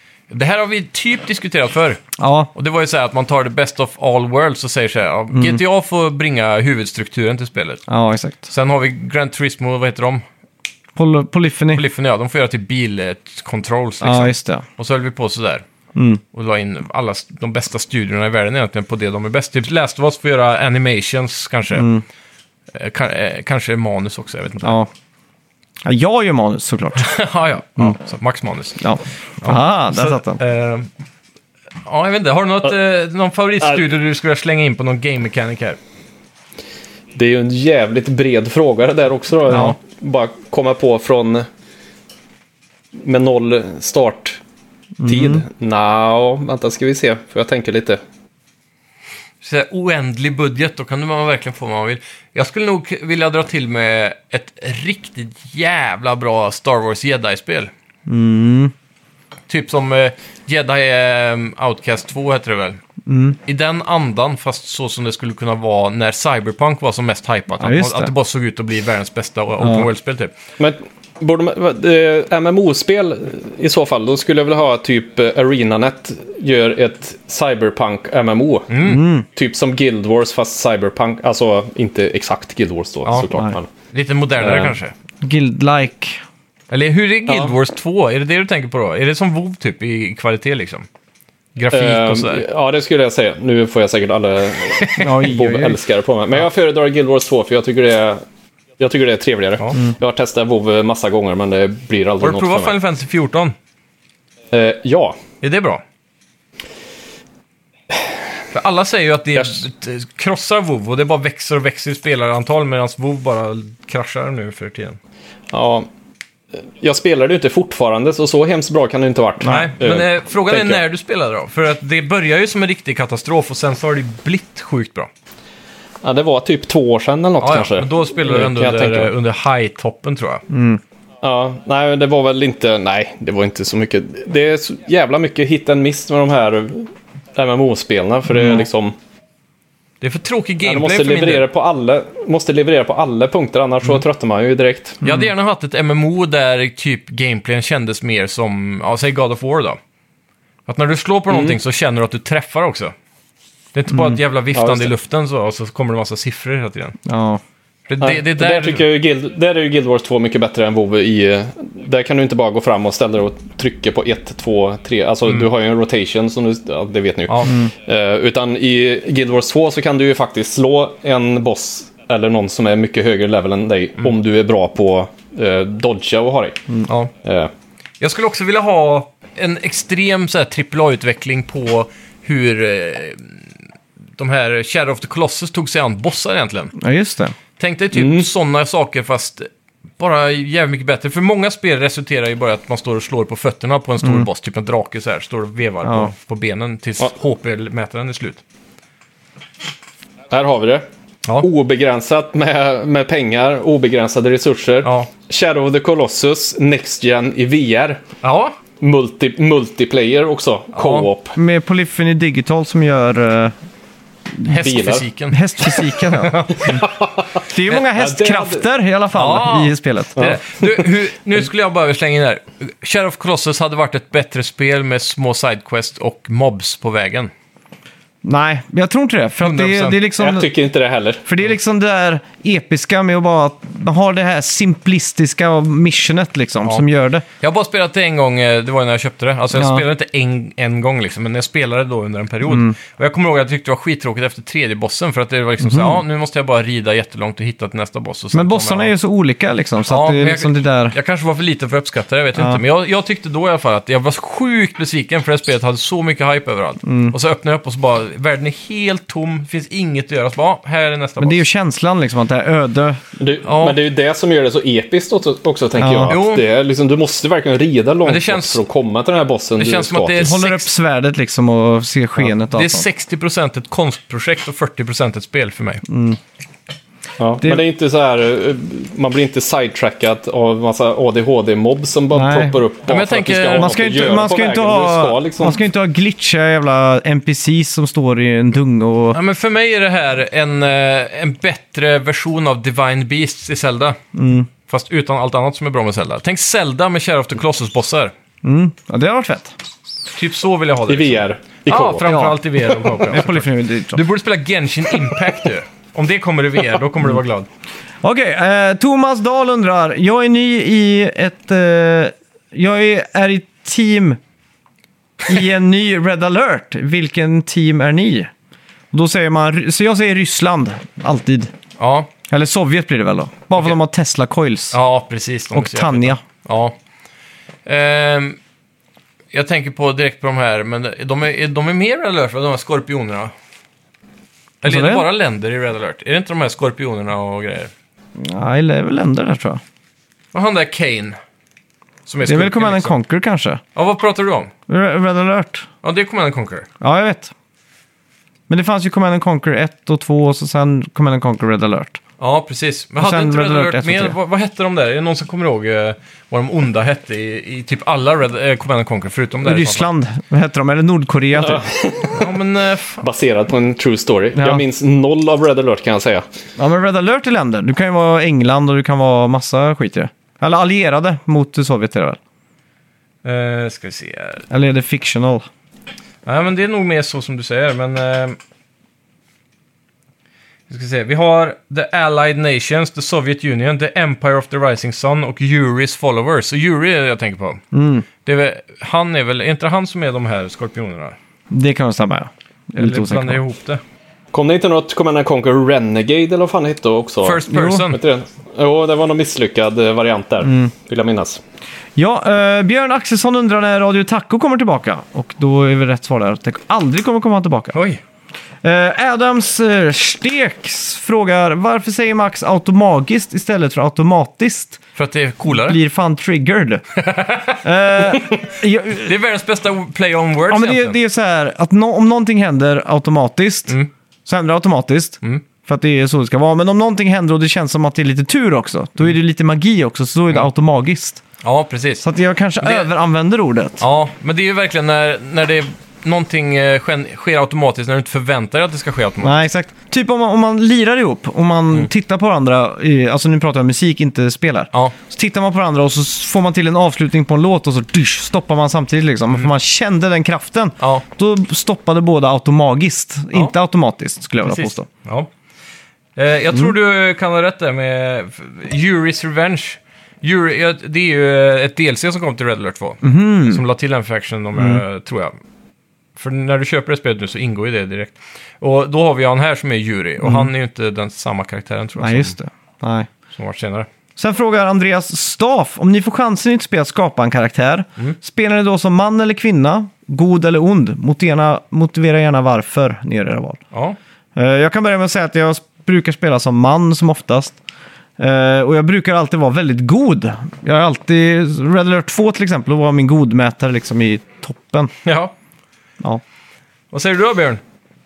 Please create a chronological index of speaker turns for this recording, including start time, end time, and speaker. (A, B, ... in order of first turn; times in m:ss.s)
0:00.3-0:02.0 A
0:02.2-0:02.5 B
0:02.5-0:07.8 A
0:05.3-0:05.6 B
0:07.9-0:08.5 B
0:08.5-0:10.2 A
0:11.0-0:11.8 B
0:11.7-0:15.6 A
0:14.0-0:14.6 B
0:16.0-0:16.2 B
0:16.3-0:21.9 A
0:21.8-0:22.0 B
0:22.7-0:24.8 A
0:24.6-0:24.9 B
0:25.8-0:27.1 B
0:27.0-0:30.9 A
0:28.8-0:30.4 B
0:31.8-0:35.8 A
0:37.2-0:41.5 C
0:39.5-0:39.8 B
0:43.0-0:44.4 C
0:45.0-0:45.4 B
0:45.0-0:48.0 C
0:49.4-0:57.7 A
0:58.1-0:58.7 B
0:59.5-1:02.8 A
1:03.1-1:03.4 B
1:03.5-1:10.3 A
1:07.6-1:08.1 B
1:09.6-1:09.9 B
1:10.6-1:18.8 C
1:18.7-1:19.0 A
1:18.8-1:19.3 B
1:19.3-1:23.7 C
1:23.0-1:23.3 A
1:23.9-1:24.9 A
1:24.4-1:24.8 C
1:25.2-1:26.2 B
1:26.7-1:30.9 A
1:27.3-1:27.5 C
1:31.6-1:32.4 A
1:31.7-1:38.2 C
1:35.0-1:35.8 B
1:38.8-1:42.7 C
1:42.2-1:43.6 A
1:44.5-1:45.2 C
1:45.4-1:45.8 A
1:48.5-1:55.0 A
1:55.5-1:55.9 C
1:56.7-2:00.8 C
1:59.4-2:05.1 A
2:06.0-2:09.1 C
2:07.4-2:10.4 A
2:10.5-2:10.8 B
2:11.2-2:19.0 C
2:20.0-2:21.5 A
2:20.6-2:25.0 C
2:25.0-2:29.8 A
2:30.7-2:32.9 A
2:31.3-2:31.6 C
2:33.7-2:37.0 A
2:34.5-2:34.9 C
2:37.0-2:37.4 B
2:37.9-2:38.8 A
2:38.0-2:56.7 C
2:47.3-2:47.6 A
2:56.9-2:57.1 A
2:57.2-2:57.5 C
2:58.0-3:03.4 A
3:04.2-3:06.8 A
3:06.8-3:07.4 B
3:07.6-3:18.4 A
3:07.9-3:08.2 C
3:15.8-3:16.1 B
3:20.3-3:20.8 C
3:21.4-3:28.0 C
3:24.8-3:25.1 A
3:28.2-3:28.6 A
3:28.8-3:31.4 C
3:30.8-3:31.1 A
3:31.4-3:33.5 B
3:34.4-3:36.8 A
3:34.5-3:35.0 C
3:35.3-3:36.8 B
3:36.6-3:37.4 C
3:37.4-3:40.2 B
3:37.9-3:38.6 C
3:39.1-3:47.3 A
3:40.2-3:40.8 C
3:48.2-3:50.5 B
3:49.4-3:50.0 A
3:50.2-3:51.2 C
3:51.3-3:57.2 B
3:57.4-4:08.9 A
3:59.6-3:59.8 B
4:02.5-4:02.8 B
4:05.6-4:06.0 B
4:08.3-4:11.0 B
4:09.9-4:21.4 A
4:16.8-4:17.1 B
4:21.2-4:23.0 B
4:23.2-4:30.3 C
4:23.4-4:23.8 A
4:25.8-4:26.1 B
4:26.1-4:26.4 A
4:28.0-4:28.6 A
4:29.6-4:30.7 A
4:30.2-4:32.9 B
4:32.2-4:35.8 A
4:35.9-4:36.2 B
4:37.2-4:45.6 C
4:42.1-4:42.6 B
4:42.9-4:44.1 A
4:43.5-4:49.2 B
4:49.1-4:54.0 A
4:54.1-4:54.5 B
4:54.7-4:58.1 A
4:58.4-4:59.5 B
5:00.2-5:07.5 A
5:00.9-5:02.1 C
5:02.0-5:04.0 B
5:08.0-5:14.2 B
5:15.3-5:18.3 B
5:18.9-5:21.5 B
5:21.8-5:22.1 A
5:22.3-5:24.8 B
5:24.7-5:26.8 A
5:25.5-5:26.2 B
5:27.7-5:28.4 A
5:29.3-5:33.3 A
5:34.6-5:35.1 B
5:34.6-5:37.7 A
5:38.2-5:39.6 B
5:40.3-5:41.2 A
5:42.1-5:43.0 A
5:42.3-5:43.6 B
5:43.8-5:44.5 A
5:44.7-5:45.7 B
5:45.8-5:46.7 A
5:46.8-5:47.3 B
5:48.5-5:52.0 B
5:52.2-5:59.9 A
5:53.0-5:54.2 B
5:59.4-6:01.6 B
6:01.4-6:02.3 C
6:02.1-6:03.1 A
6:03.0-6:06.2 C
6:04.4-6:04.6 B
6:06.6-6:12.2 B
6:13.2-6:14.4 A
6:14.5-6:15.5 B
6:16.2-6:18.4 A
6:20.7-6:27.6 A
6:27.7-6:28.1 B
6:28.2-6:31.2 A
6:31.5-6:33.4 B
6:32.8-6:33.8 A
6:34.3-6:41.4 C
6:37.2-6:38.0 A
6:37.5-6:37.9 B
6:40.4-6:40.7 B
6:42.0-6:47.8 B
6:47.7-6:48.0 A
6:48.6-6:54.8 B
6:55.0-6:55.8 A
6:55.5-6:56.8 B
6:57.0-7:01.0 A
6:57.6-6:59.1 B
7:00.5-7:03.8 B
7:04.3-7:11.2 B
7:11.4-7:12.0 A
7:12.0-7:13.8 B
7:12.6-7:12.9 A
7:13.8-7:19.4 A
7:19.2-7:34.9 B
7:30.8-7:31.0 A
7:34.4-7:35.3 A
7:36.2-7:45.4 A
7:43.0-7:43.6 B
7:44.6-7:44.8 B
7:46.2-7:52.4 A
7:50.2-7:50.5 B
7:52.0-7:53.1 B
7:53.3-7:53.9 A
7:54.2-8:03.6 B
8:03.7-8:04.0 A
8:04.4-8:07.6 B
8:08.2-8:14.9 B
8:15.0-8:15.3 A
8:16.9-8:17.6 A